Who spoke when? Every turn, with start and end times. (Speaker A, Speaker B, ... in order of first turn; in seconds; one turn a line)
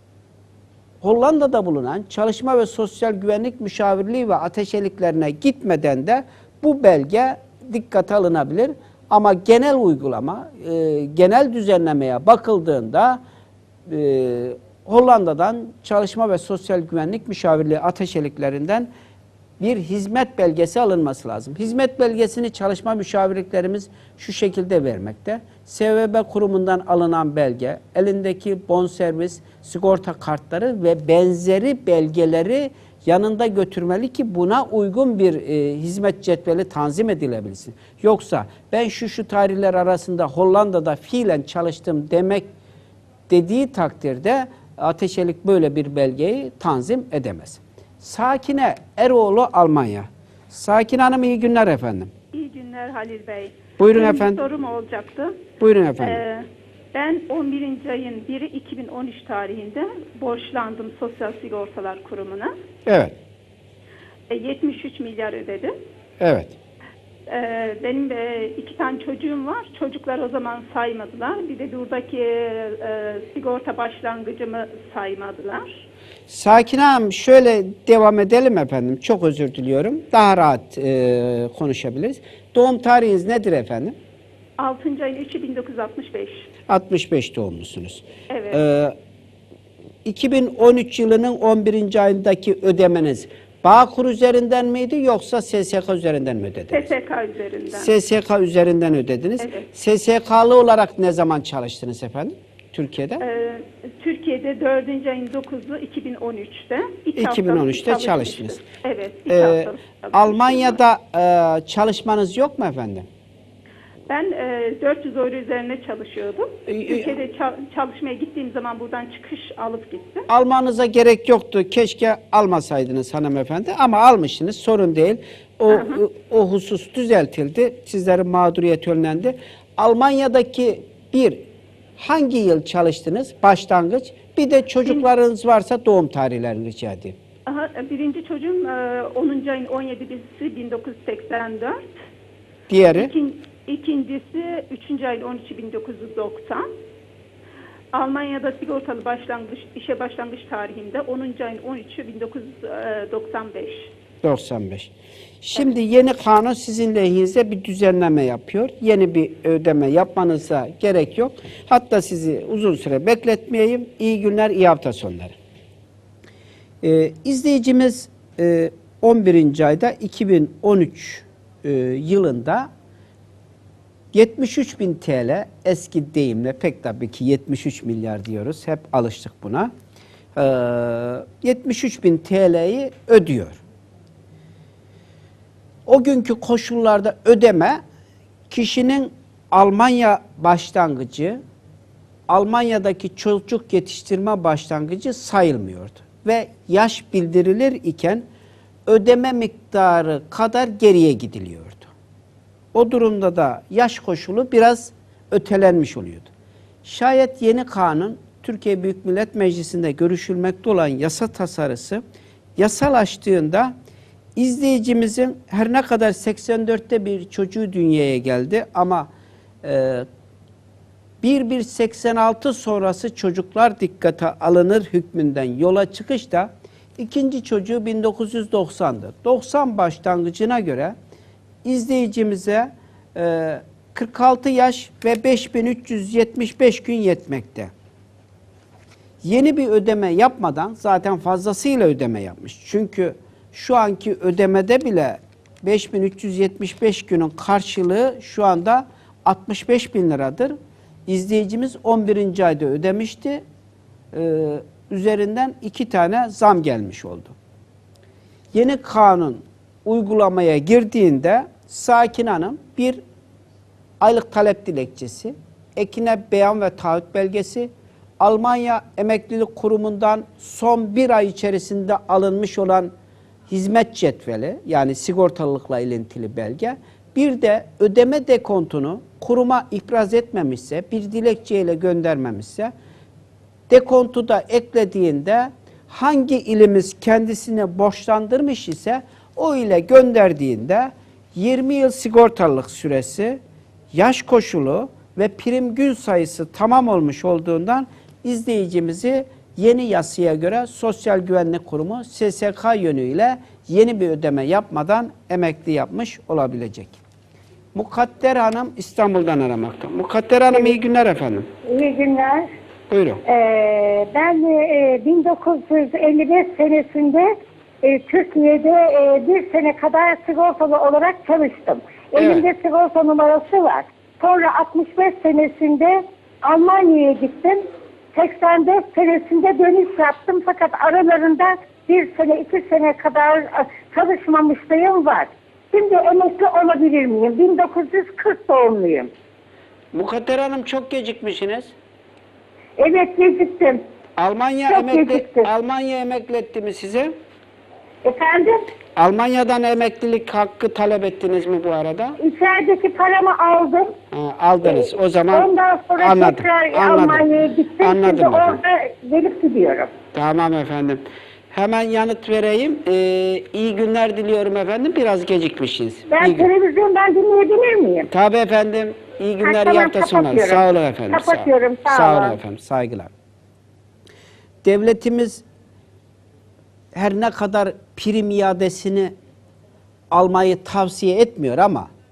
Speaker A: 1.0-13.2
Speaker A: 13.9-18.9
Speaker A: 19.6-42.5
Speaker A: 43.3-52.1
Speaker B: 52.3-55.4
Speaker A: 53.8-54.4
Speaker A: 55.6-56.2
Speaker B: 56.0-62.5
Speaker A: 62.9-63.2
Speaker B: 64.3-65.8
Speaker A: 66.2-66.5
Speaker B: 67.3-75.8
Speaker A: 76.3-83.9
Speaker B: 84.6-86.5
Speaker A: 86.7-88.9
Speaker B: 88.3-88.6
Speaker A: 90.0-96.9
Speaker B: 96.7-97.9
Speaker A: 97.7-103.2
Speaker B: 99.4-99.7
Speaker B: 103.2-110.8
Speaker A: 107.2-108.6
Speaker A: 109.3-113.1
Speaker B: 114.1-120.3
Speaker A: 116.7-117.1
Speaker A: 120.3-131.4
Speaker B: 125.7-126.0
Speaker A: 132.0-137.2
Speaker B: 137.5-141.8
Speaker A: 142.7-143.1
Speaker B: 142.9-146.7
Speaker B: 147.9-153.9
Speaker A: 154.2-165.3
Speaker A: 166.8-172.7
Speaker A: 174.1-179.7
Speaker A: 180.3-183.6
Speaker A: 185.8-187.8
Speaker A: 188.5-191.4
Speaker A: 192.3-198.2
Speaker A: 198.8-201.9
Speaker A: 202.7-206.3
Speaker A: 206.8-212.0
Speaker A: 212.6-213.7
Speaker A: 214.3-219.1
Speaker A: 219.6-220.1
Speaker A: 221.2-230.9
Speaker A: 231.6-237.7
Speaker A: 239.2-250.6
Speaker A: 251.1-253.4
Speaker A: 254.1-257.3
Speaker A: 258.5-263.0
Speaker A: 264.0-272.9
Speaker A: 273.5-282.7
Speaker A: 283.7-293.4
Speaker A: 293.9-307.0
Speaker A: 307.7-311.5
Speaker C: 311.7-312.5
Speaker A: 312.9-313.2
Speaker C: 313.3-317.3
Speaker C: 317.8-327.6
Speaker A: 322.1-322.5
Speaker C: 328.1-339.1
Speaker A: 339.9-341.7
Speaker C: 342.8-343.8
Speaker A: 344.2-347.1
Speaker C: 344.7-345.5
Speaker C: 348.0-348.6
Speaker A: 348.9-352.2
Speaker C: 352.2-353.9
Speaker A: 354.1-357.2
Speaker C: 354.6-359.9
Speaker A: 357.8-358.6
Speaker A: 360.1-366.5
Speaker C: 366.1-368.1
Speaker A: 368.1-373.1
Speaker C: 369.4-370.6
Speaker C: 371.1-372.4
Speaker A: 374.6-375.4
Speaker A: 376.9-379.1
Speaker A: 380.1-381.9